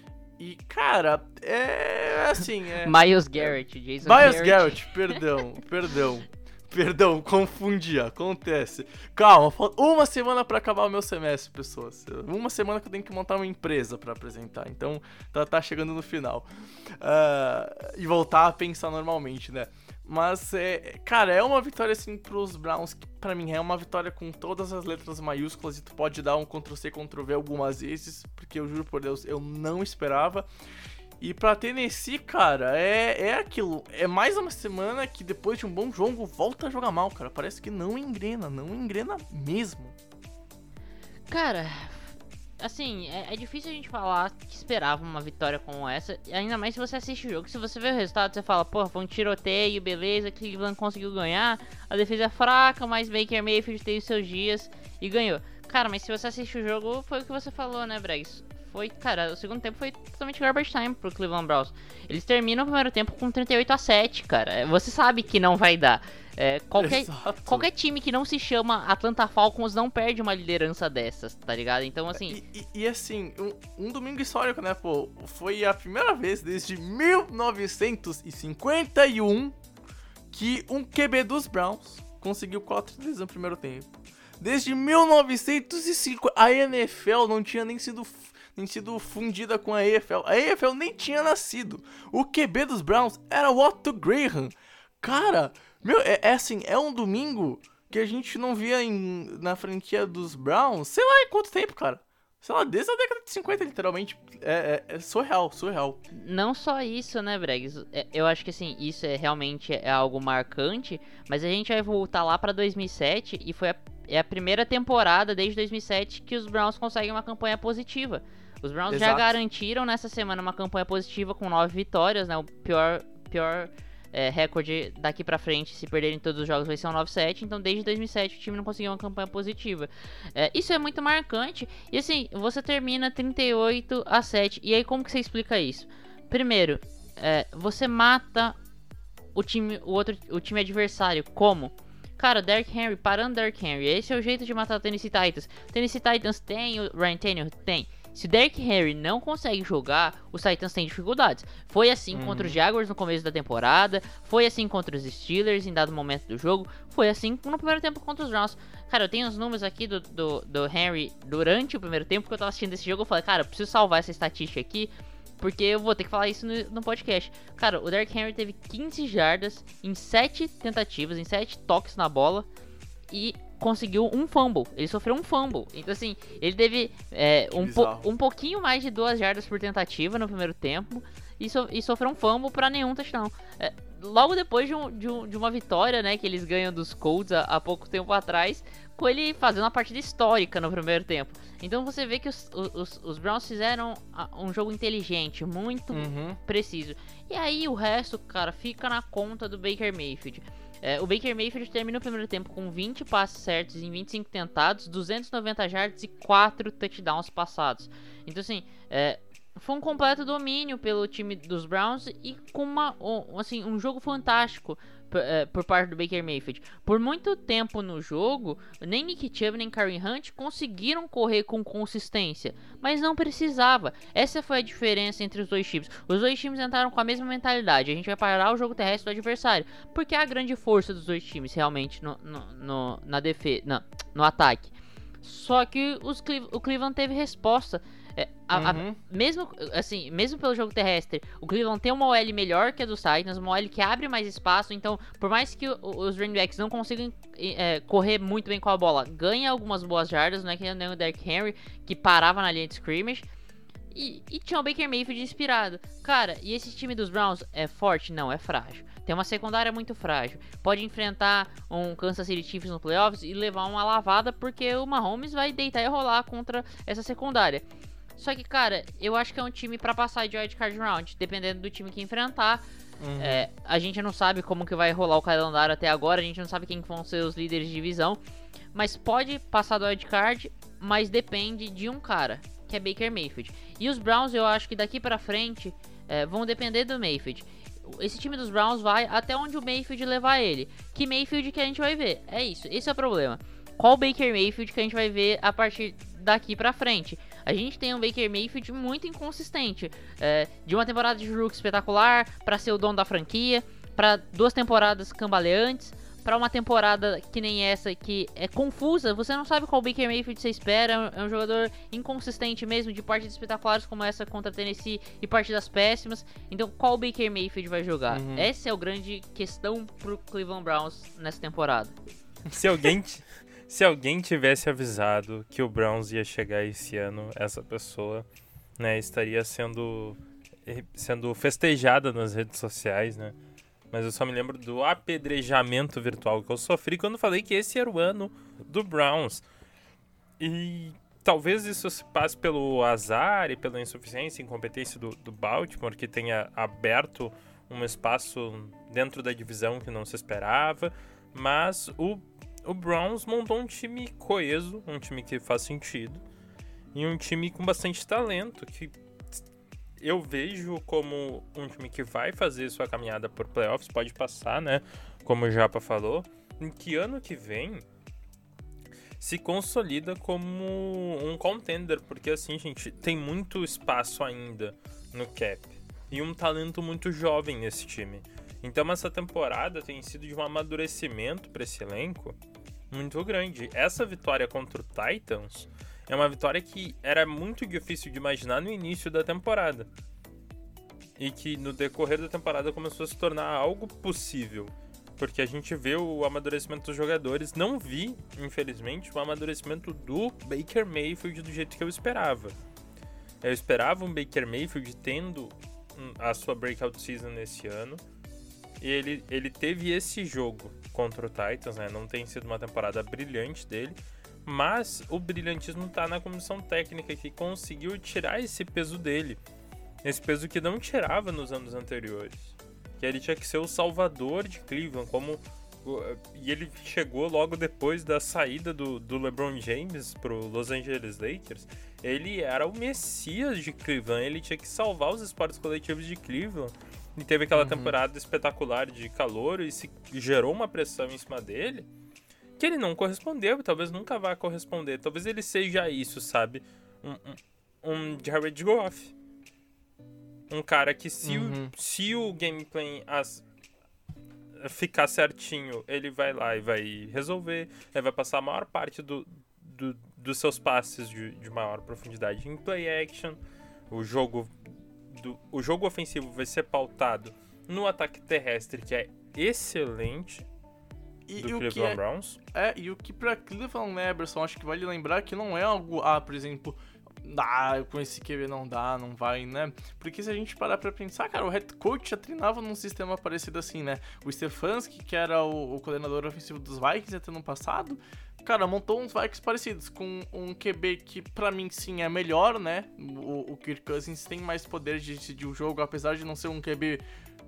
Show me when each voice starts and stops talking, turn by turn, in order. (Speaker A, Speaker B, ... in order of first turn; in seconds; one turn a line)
Speaker A: 0.4-30.5
Speaker B: 2.8-4.9
Speaker A: 31.2-40.0
Speaker B: 41.3-72.4
Speaker A: 66.8-67.7
Speaker A: 72.1-79.6
Speaker A: 80.3-106.0
Speaker B: 106.1-138.6
Speaker A: 118.9-119.3
Speaker B: 139.3-172.5
Speaker A: 152.1-152.6
Speaker B: 173.1-253.2
Speaker A: 177.5-178.1
Speaker A: 195.9-196.4
Speaker A: 238.5-239.0
Speaker B: 253.9-267.6
Speaker B: 268.2-272.6
Speaker A: 273.0-273.5
Speaker B: 273.2-278.2
Speaker B: 278.7-321.9
Speaker A: 318.1-318.5
Speaker C: 322.5-328.2
Speaker C: 328.8-333.4
Speaker C: 333.9-339.4
Speaker C: 340.4-356.2
Speaker C: 356.9-358.9
Speaker C: 360.0-367.8
Speaker C: 369.2-382.4
Speaker C: 382.9-389.9
Speaker C: 391.2-402.6
Speaker C: 403.4-408.0
Speaker C: 408.8-419.4
Speaker C: 420.0-441.9
Speaker A: 437.5-437.9
Speaker C: 442.6-449.1
Speaker C: 450.5-453.4
Speaker A: 451.2-451.7
Speaker C: 454.6-463.4
Speaker C: 463.9-470.4
Speaker A: 471.3-472.0
Speaker C: 471.4-472.4
Speaker A: 472.5-497.0